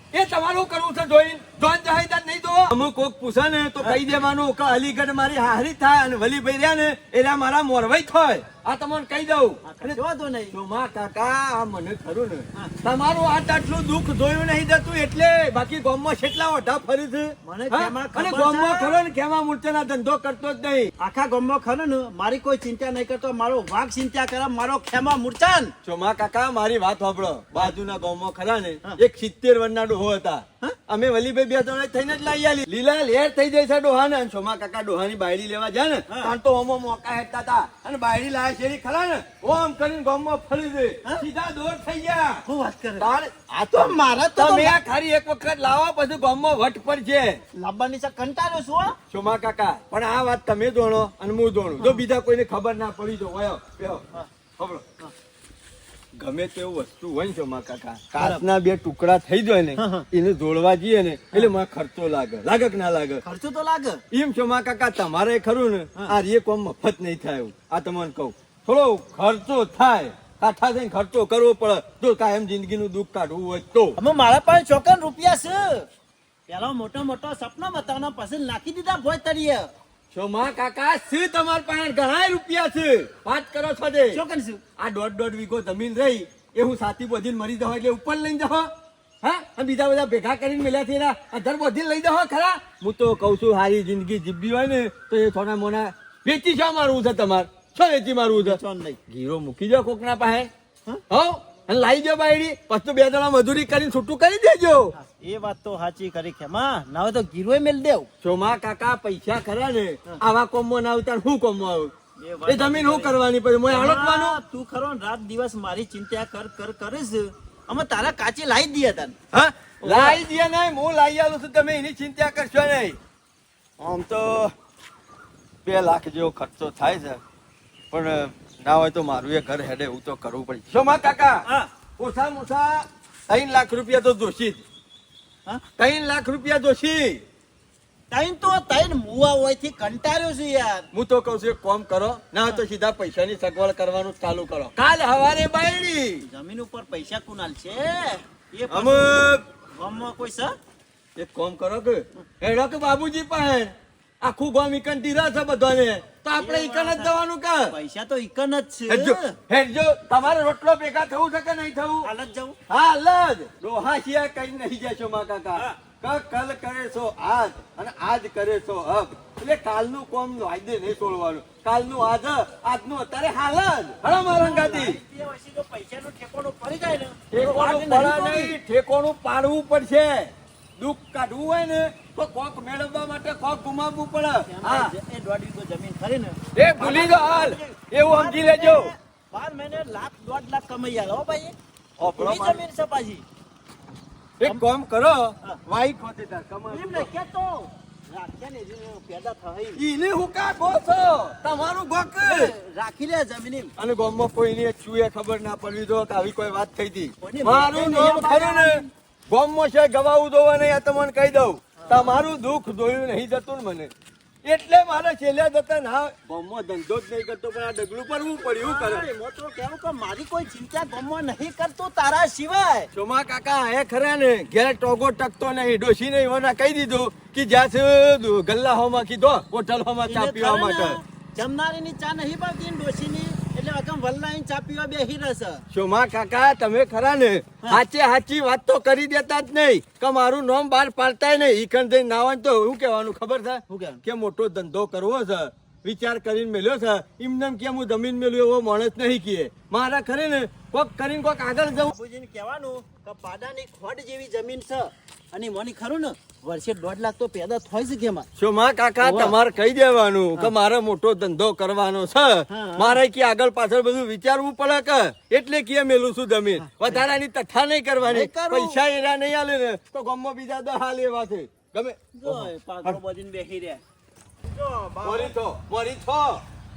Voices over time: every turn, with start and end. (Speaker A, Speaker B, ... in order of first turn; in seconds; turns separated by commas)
Speaker A: 0.1-10.0, Speaker B: 9.6-10.6, Speaker A: 10.5-20.9, Speaker B: 17.4-19.0, Speaker B: 21.0-25.7, Speaker A: 25.8-42.4, Speaker B: 36.1-36.3, Speaker B: 42.5-44.8, Speaker A: 43.0-43.3, Speaker A: 44.4-47.4, Speaker B: 47.5-49.0, Speaker A: 49.1-54.0, Speaker A: 54.6-55.0, Speaker A: 56.2-63.2, Speaker B: 58.1-58.4, Speaker B: 59.8-60.1, Speaker B: 63.2-64.0, Speaker A: 64.1-74.0, Speaker B: 74.0-75.9, Speaker B: 76.5-79.7, Speaker A: 80.1-84.2, Speaker B: 84.1-84.6, Speaker A: 84.8-88.7, Speaker A: 89.2-100.5, Speaker B: 98.3-99.0, Speaker A: 101.1-104.9, Speaker B: 105.0-108.1, Speaker A: 108.2-111.9, Speaker B: 112.2-113.2, Speaker A: 112.5-114.4, Speaker B: 113.7-119.2, Speaker A: 119.3-123.0, Speaker B: 119.8-120.2, Speaker A: 123.8-124.5, Speaker A: 125.7-127.2, Speaker A: 127.9-131.4, Speaker A: 132.0-134.6, Speaker A: 135.8-137.2, Speaker B: 138.1-140.9, Speaker A: 140.9-146.2, Speaker B: 146.2-149.2, Speaker A: 148.7-149.4, Speaker B: 149.7-150.6, Speaker A: 151.2-157.7, Speaker B: 156.4-157.2, Speaker B: 157.7-159.4, Speaker A: 158.9-162.1, Speaker B: 162.0-162.6, Speaker A: 162.7-175.0, Speaker B: 174.3-178.6, Speaker A: 177.3-184.9, Speaker B: 184.5-191.6, Speaker A: 186.6-188.9, Speaker A: 192.0-192.6, Speaker B: 192.1-193.2, Speaker A: 194.4-197.1, Speaker B: 196.7-199.8, Speaker A: 199.8-202.5, Speaker B: 202.2-203.7, Speaker A: 203.8-213.9, Speaker B: 207.2-208.9, Speaker B: 211.8-212.2, Speaker A: 214.4-219.1, Speaker B: 218.4-222.9, Speaker A: 222.9-231.0, Speaker B: 230.1-235.6, Speaker A: 235.7-251.9, Speaker B: 243.7-244.0, Speaker B: 251.8-258.3, Speaker A: 258.4-273.0, Speaker B: 259.0-259.4, Speaker B: 262.5-263.0, Speaker B: 266.6-267.0, Speaker B: 268.1-268.8, Speaker B: 272.2-273.8, Speaker B: 274.4-275.3, Speaker A: 275.0-276.4